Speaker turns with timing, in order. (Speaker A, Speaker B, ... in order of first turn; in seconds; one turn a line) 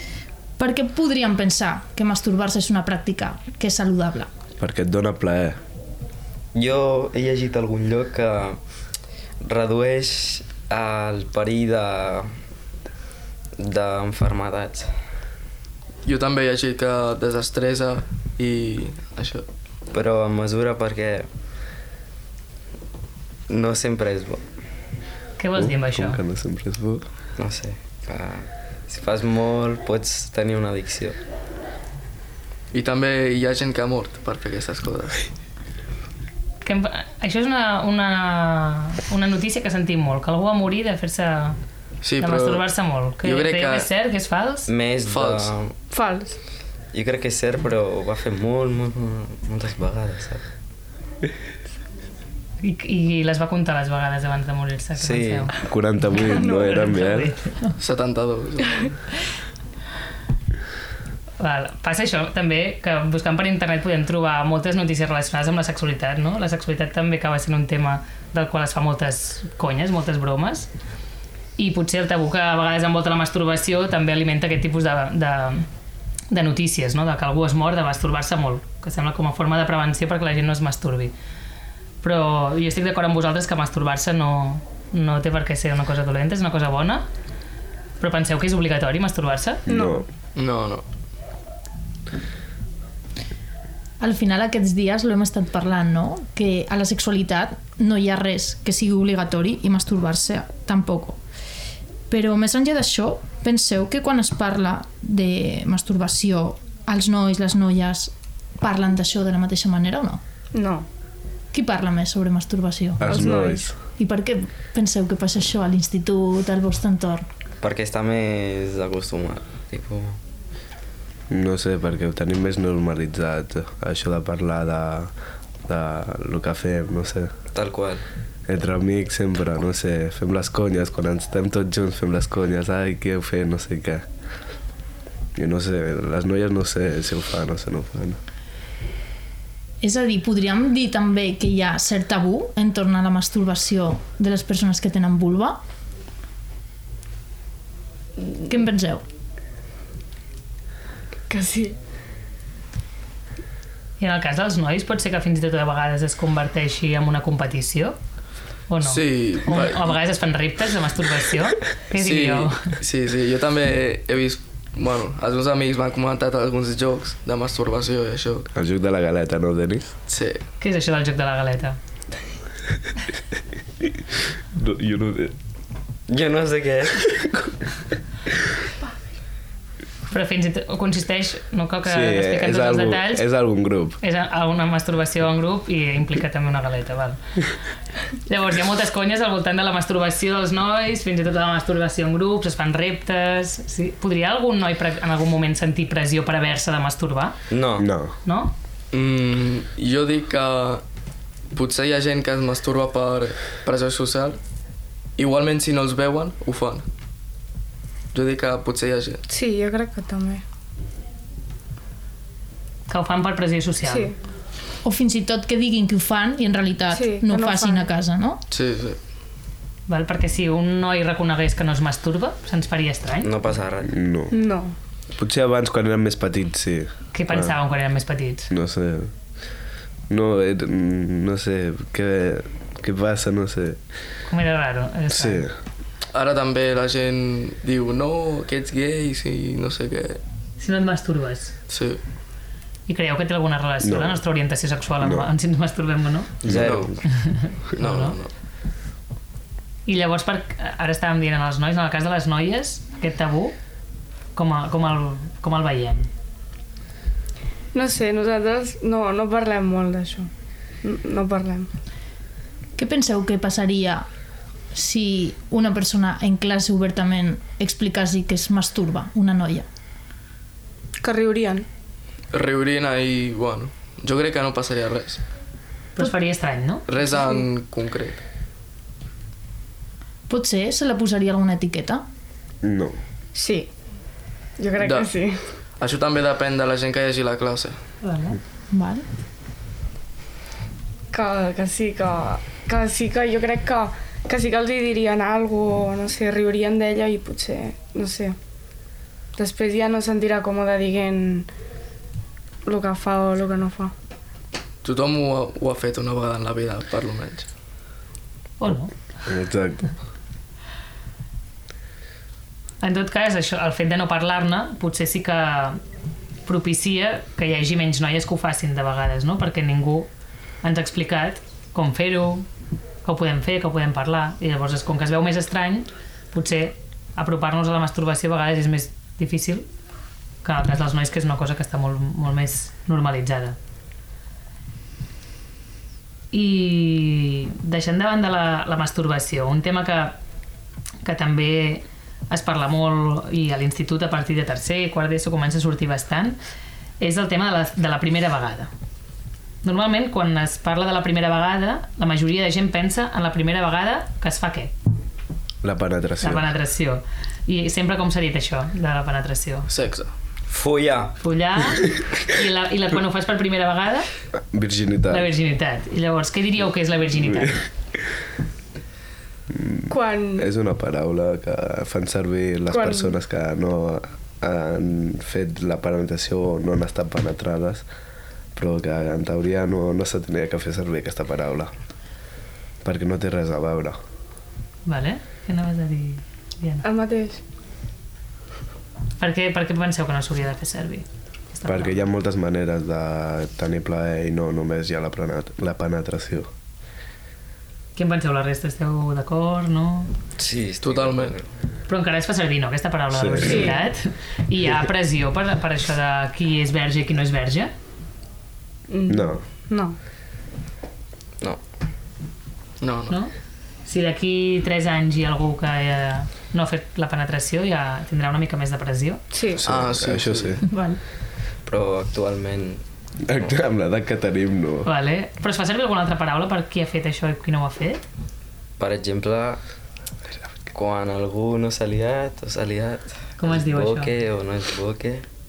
Speaker A: 0.6-4.3
Speaker B: 4.6-5.6
Speaker C: 6.5-8.6
Speaker C: 9.4-12.3
Speaker C: 13.6-14.9
Speaker D: 16.1-19.4
Speaker C: 19.9-21.3
Speaker C: 23.5-24.4
Speaker E: 25.4-26.2
Speaker B: 25.6-27.1
Speaker C: 27.4-31.2
Speaker D: 32.7-35.2
Speaker E: 36.6-41.6
Speaker D: 42.0-42.6
Speaker E: 42.2-44.7
Speaker D: 43.2-43.9
Speaker C: 44.7-45.7
Speaker D: 45.1-45.5
Speaker F: 45.9-46.4
Speaker C: 46.9-50.4
Speaker E: 52.6-55.5
Speaker C: 55.0-55.5
Speaker B: 55.6-57.3
Speaker F: 56.3-56.8
Speaker E: 56.5-57.6
Speaker D: 57.8-58.9
Speaker E: 61.4-70.7
Speaker E: 71.6-75.7
Speaker E: 76.3-81.1
Speaker E: 82.0-87.1
Speaker E: 88.0-89.6
Speaker B: 89.7-90.0
Speaker F: 89.7-90.0
Speaker D: 90.4-90.8
Speaker A: 94.0-101.2
Speaker A: 102.1-110.2
Speaker F: 110.5-110.9
Speaker A: 111.5-117.3
Speaker B: 113.0-113.7
Speaker F: 113.0-113.7
Speaker C: 117.6-120.2
Speaker B: 121.3-125.1
Speaker B: 125.7-127.3
Speaker C: 127.5-128.0
Speaker B: 128.5-134.1
Speaker B: 135.4-138.2
Speaker A: 139.8-145.6
Speaker A: 148.5-149.0
Speaker F: 151.3-151.8
Speaker E: 154.0-158.0
Speaker E: 158.7-162.7
Speaker D: 158.8-159.9
Speaker D: 161.9-168.5
Speaker B: 168.5-169.9
Speaker D: 170.1-170.4
Speaker E: 170.6-171.8
Speaker B: 174.5-175.3
Speaker C: 176.1-177.1
Speaker E: 180.1-183.2
Speaker B: 181.8-184.0
Speaker E: 184.0-187.2
Speaker E: 188.3-197.4
Speaker C: 197.5-197.9
Speaker B: 197.8-198.1
Speaker E: 198.2-198.5
Speaker D: 198.9-200.8
Speaker D: 201.5-204.4
Speaker D: 205.2-206.8
Speaker D: 208.1-209.2
Speaker F: 209.3-210.4
Speaker E: 212.9-214.1
Speaker F: 213.8-214.1
Speaker A: 214.8-218.4
Speaker F: 216.9-217.9
Speaker D: 218.5-219.0
Speaker E: 219.9-223.3
Speaker C: 223.2-223.9
Speaker B: 223.9-224.3
Speaker F: 224.3-224.8
Speaker B: 225.2-227.6
Speaker E: 227.1-228.5
Speaker B: 228.5-229.1
Speaker B: 230.1-233.8
Speaker E: 234.3-235.5
Speaker B: 235.1-235.5
Speaker D: 236.1-240.2
Speaker E: 240.6-241.5
Speaker D: 241.7-242.0
Speaker E: 242.9-246.3
Speaker B: 243.8-244.2
Speaker B: 245.0-245.3
Speaker B: 246.4-246.9
Speaker C: 246.4-247.0
Speaker D: 246.5-246.9
Speaker E: 247.1-248.2
Speaker D: 247.8-248.3
Speaker E: 249.9-253.5
Speaker E: 254.3-256.1
Speaker F: 257.7-260.3
Speaker F: 260.8-261.7
Speaker A: 262.8-264.1
Speaker A: 264.7-269.7
Speaker F: 271.0-271.7
Speaker D: 272.3-275.2
Speaker E: 276.0-276.9
Speaker D: 276.9-278.2
Speaker A: 280.3-282.0
Speaker B: 282.6-283.0
Speaker F: 283.4-283.7
Speaker F: 284.6-285.4
Speaker D: 284.8-285.1
Speaker D: 285.8-287.8
Speaker E: 288.0-288.4
Speaker A: 288.7-289.1
Speaker F: 291.1-298.4
Speaker F: 299.4-301.5
Speaker F: 302.6-303.9
Speaker D: 304.8-307.5
Speaker E: 308.6-308.9
Speaker B: 309.3-309.9
Speaker E: 312.8-315.8
Speaker E: 316.5-320.1
Speaker E: 320.6-322.5
Speaker E: 323.1-329.7
Speaker E: 330.4-333.6
Speaker E: 336.3-340.2
Speaker E: 341.0-346.4
Speaker E: 347.0-348.7
Speaker E: 349.6-354.7
Speaker B: 355.6-356.5
Speaker E: 356.2-359.7
Speaker D: 359.7-360.1
Speaker C: 360.5-361.2
Speaker E: 361.2-364.1
Speaker B: 364.5-365.3
Speaker E: 365.1-367.6
Speaker B: 369.5-377.9
Speaker F: 369.9-370.5
Speaker F: 372.7-373.1
Speaker B: 378.6-381.7
Speaker B: 382.8-384.0
Speaker E: 384.9-386.9
Speaker F: 386.8-387.4
Speaker E: 389.2-392.0
Speaker B: 391.7-396.5
Speaker E: 398.0-400.1
Speaker C: 400.4-401.4
Speaker D: 400.8-401.4
Speaker E: 401.9-407.7
Speaker B: 403.1-403.7
Speaker F: 403.4-403.8
Speaker F: 408.9-410.0
Speaker B: 409.1-409.4
Speaker D: 412.8-413.2
Speaker E: 413.9-419.2
Speaker F: 419.3-419.6
Speaker B: 419.6-420.6
Speaker D: 419.6-420.6
Speaker A: 420.6-421.0
Speaker C: 421.7-422.8
Speaker B: 423.2-424.9
Speaker E: 424.9-428.0
Speaker C: 428.8-429.6
Speaker C: 430.7-435.2
Speaker E: 433.4-434.1